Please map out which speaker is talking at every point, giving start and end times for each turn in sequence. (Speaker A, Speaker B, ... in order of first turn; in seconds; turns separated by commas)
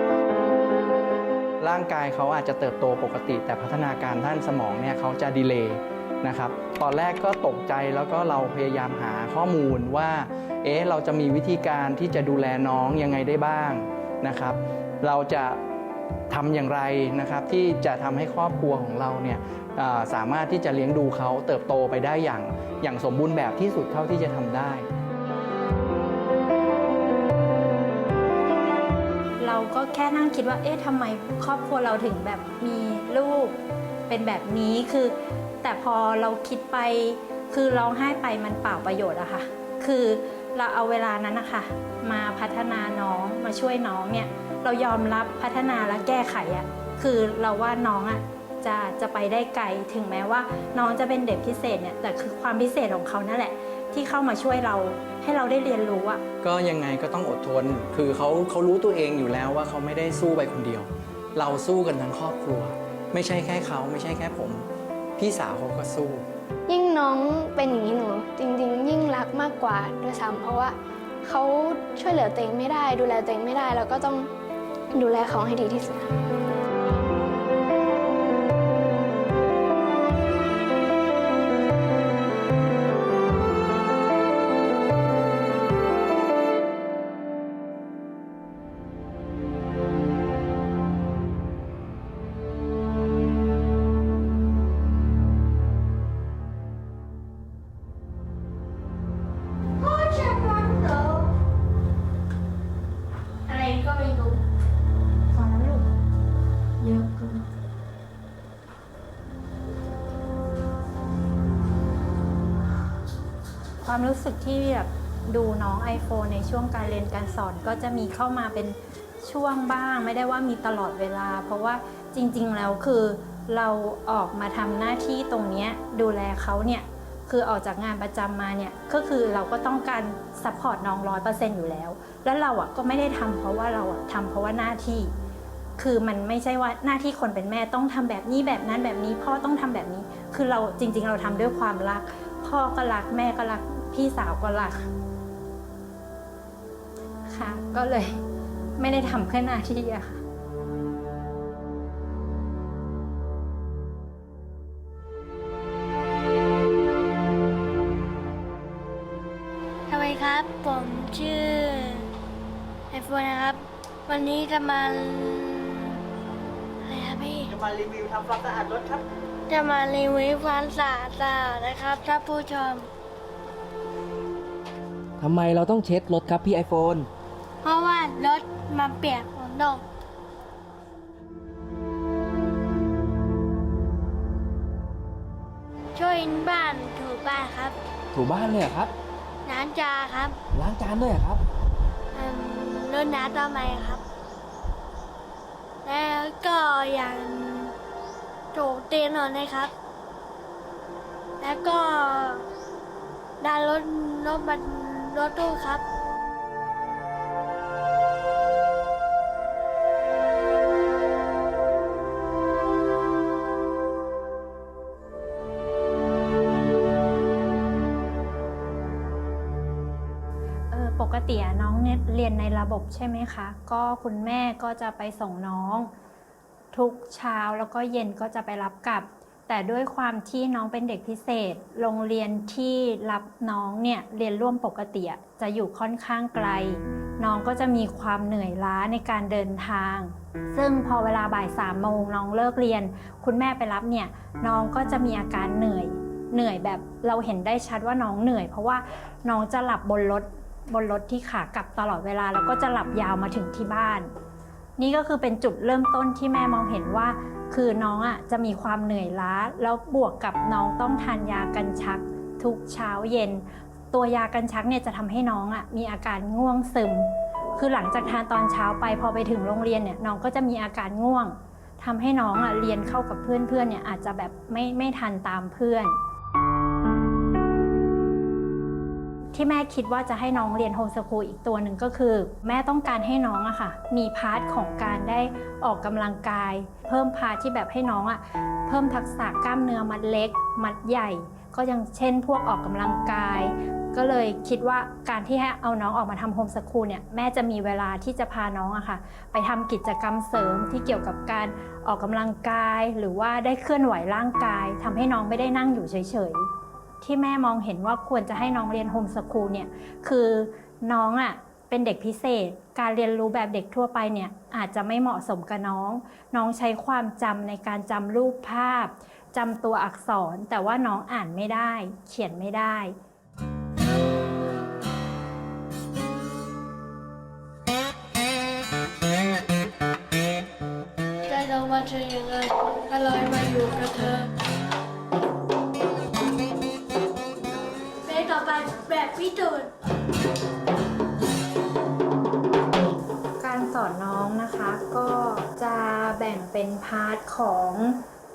Speaker A: 1.6-15.6, Speaker A: 16.3-24.9, Speaker B: 29.4-33.6, Speaker B: 34.1-56.2, Speaker A: 56.4-64.6, Speaker A: 65.2-66.2, Speaker C: 66.7-74.3, Speaker C: 74.9-76.1, Speaker D: 99.8-101.3, Speaker D: 103.5-104.4, Speaker B: 105.3-105.8, Speaker D: 106.8-107.4, Speaker B: 113.8-135.1, Speaker B: 135.8-144.9, Speaker B: 147.3-148.1, Speaker B: 148.8-150.2, Speaker D: 159.9-162.1, Speaker D: 162.9-165.8, Speaker D: 166.8-167.5, Speaker D: 169.5-172.9, Speaker E: 175.2-177.1, Speaker D: 177.6-179.8, Speaker D: 185.9-187.8, Speaker E: 188.1-188.9, Speaker D: 189.4-190.4, Speaker E: 190.5-191.4, Speaker D: 192.1-194.0, Speaker D: 195.8-197.7, Speaker D: 198.5-199.7, Speaker D: 201.4-202.4, Speaker D: 203.4-205.8, Speaker B: 220.7-225.9, Speaker B: 226.7-254.1, Speaker B: 254.8-275.9, Speaker B: 279.3-306.5, Speaker B: 307.0-322.9, Speaker D: 331.3-334.3, Speaker D: 338.0-339.7, Speaker B: 343.4-348.0